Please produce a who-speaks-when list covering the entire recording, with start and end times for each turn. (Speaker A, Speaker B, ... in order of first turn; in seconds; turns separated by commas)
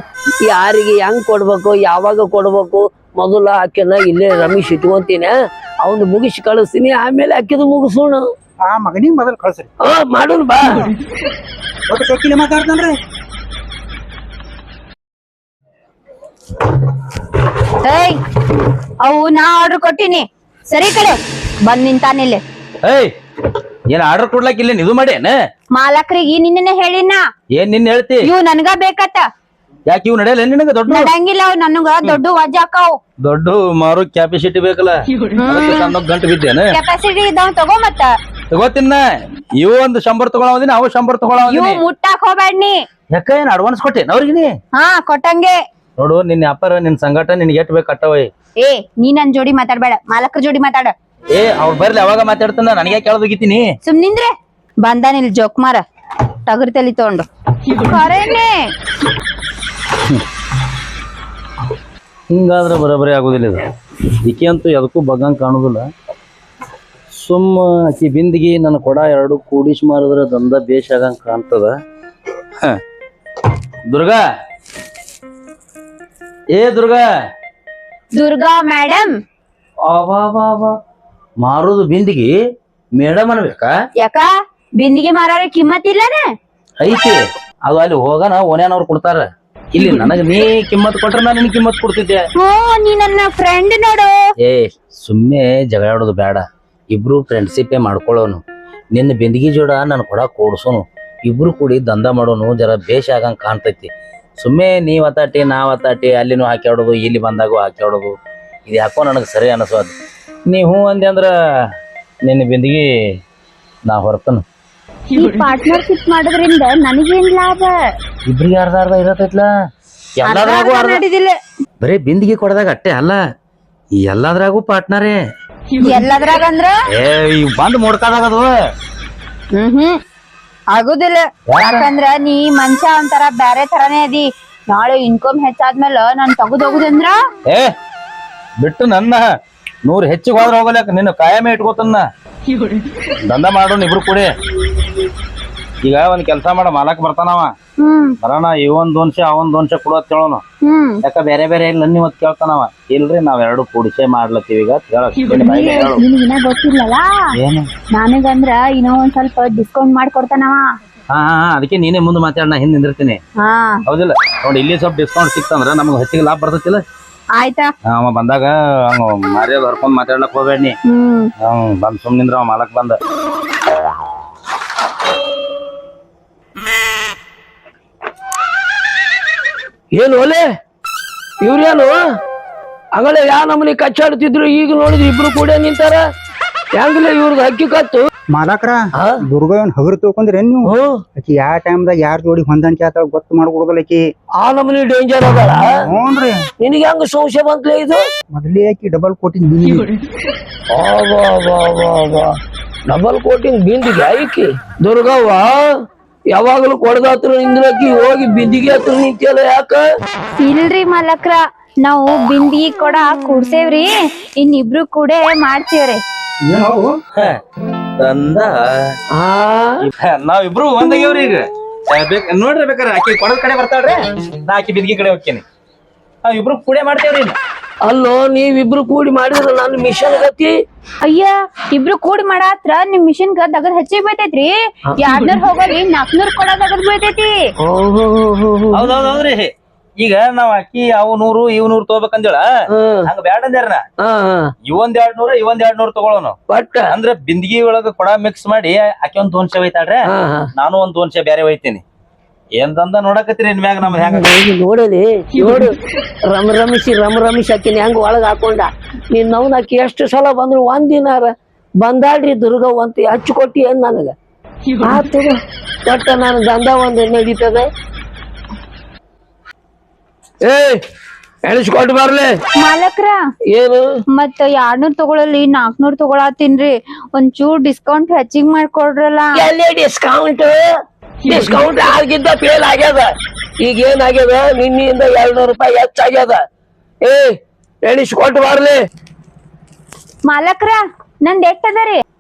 Speaker A: 0.5-8.3, Speaker B: 8.6-9.7, Speaker A: 9.8-10.8, Speaker B: 11.9-13.0, Speaker C: 17.8-18.2, Speaker C: 19.0-22.4, Speaker D: 22.8-23.1, Speaker D: 23.9-25.4, Speaker C: 25.7-27.2, Speaker D: 27.6-28.3, Speaker C: 28.2-29.3, Speaker D: 29.9-31.1, Speaker C: 30.9-33.0, Speaker D: 33.2-35.0, Speaker C: 35.4-35.9, Speaker D: 35.5-36.8, Speaker C: 36.7-38.1, Speaker D: 38.5-39.0, Speaker D: 39.6-41.8, Speaker C: 41.5-42.8, Speaker D: 43.1-44.5, Speaker C: 44.7-45.6, Speaker D: 46.0-48.3, Speaker C: 48.6-50.9, Speaker D: 51.3-53.7, Speaker C: 53.8-55.8, Speaker C: 56.5-58.5, Speaker D: 62.3-63.7, Speaker D: 64.2-65.8, Speaker D: 67.2-71.7, Speaker D: 73.9-74.2, Speaker D: 76.5-77.0, Speaker C: 78.1-79.1, Speaker D: 79.9-80.8, Speaker D: 81.4-82.3, Speaker D: 83.0-83.7, Speaker C: 84.0-86.2, Speaker D: 86.8-92.2, Speaker C: 92.4-94.2, Speaker D: 94.4-98.4, Speaker D: 98.9-108.1, Speaker D: 108.7-109.9, Speaker D: 110.5-111.3, Speaker D: 112.3-112.8, Speaker D: 113.9-114.4, Speaker C: 115.1-117.8, Speaker D: 118.3-119.5, Speaker D: 120.2-121.0, Speaker C: 120.2-121.4, Speaker D: 121.8-123.2, Speaker D: 124.0-125.2, Speaker C: 125.8-126.7, Speaker D: 127.0-128.5, Speaker C: 129.6-130.0, Speaker C: 130.7-137.2, Speaker D: 131.5-131.9, Speaker D: 138.6-139.3, Speaker D: 139.8-142.1, Speaker D: 143.3-144.3, Speaker D: 145.8-147.5, Speaker C: 147.8-148.2, Speaker D: 148.2-150.4, Speaker C: 150.6-151.0, Speaker D: 151.0-156.0, Speaker C: 155.3-157.1, Speaker D: 157.4-157.7, Speaker C: 157.9-160.7, Speaker D: 161.1-163.2, Speaker C: 163.4-163.8, Speaker D: 163.9-166.8, Speaker C: 167.4-167.7, Speaker D: 167.9-170.8, Speaker C: 170.9-171.3, Speaker D: 171.4-173.0, Speaker A: 179.9-180.4, Speaker A: 181.4-181.9, Speaker A: 182.9-186.0, Speaker A: 186.7-188.1, Speaker B: 188.3-194.1, Speaker A: 190.7-191.0, Speaker A: 194.4-195.6, Speaker B: 195.8-196.4, Speaker A: 196.6-198.0, Speaker B: 198.3-199.9, Speaker A: 200.7-202.3, Speaker A: 202.9-205.6, Speaker A: 206.3-209.8, Speaker C: 210.4-216.0, Speaker B: 216.5-217.0, Speaker D: 218.0-218.9, Speaker A: 219.2-219.8, Speaker D: 219.8-225.4, Speaker D: 226.2-227.4, Speaker A: 227.8-230.5, Speaker C: 231.0-237.3, Speaker A: 235.0-235.4, Speaker A: 237.6-238.9, Speaker D: 238.7-242.4, Speaker A: 242.7-243.1, Speaker D: 243.1-243.8, Speaker A: 244.0-244.5, Speaker D: 244.7-246.4, Speaker A: 246.5-246.9, Speaker D: 246.9-251.8, Speaker A: 250.1-250.5, Speaker D: 252.6-254.3, Speaker A: 253.9-255.7, Speaker A: 256.3-264.1, Speaker A: 264.8-267.7, Speaker A: 270.4-270.8, Speaker A: 271.4-272.3, Speaker C: 272.6-273.2, Speaker A: 273.5-273.8, Speaker C: 274.1-279.4, Speaker A: 279.4-280.6, Speaker A: 281.3-283.1, Speaker A: 283.6-286.4, Speaker A: 287.0-288.8, Speaker C: 290.3-292.0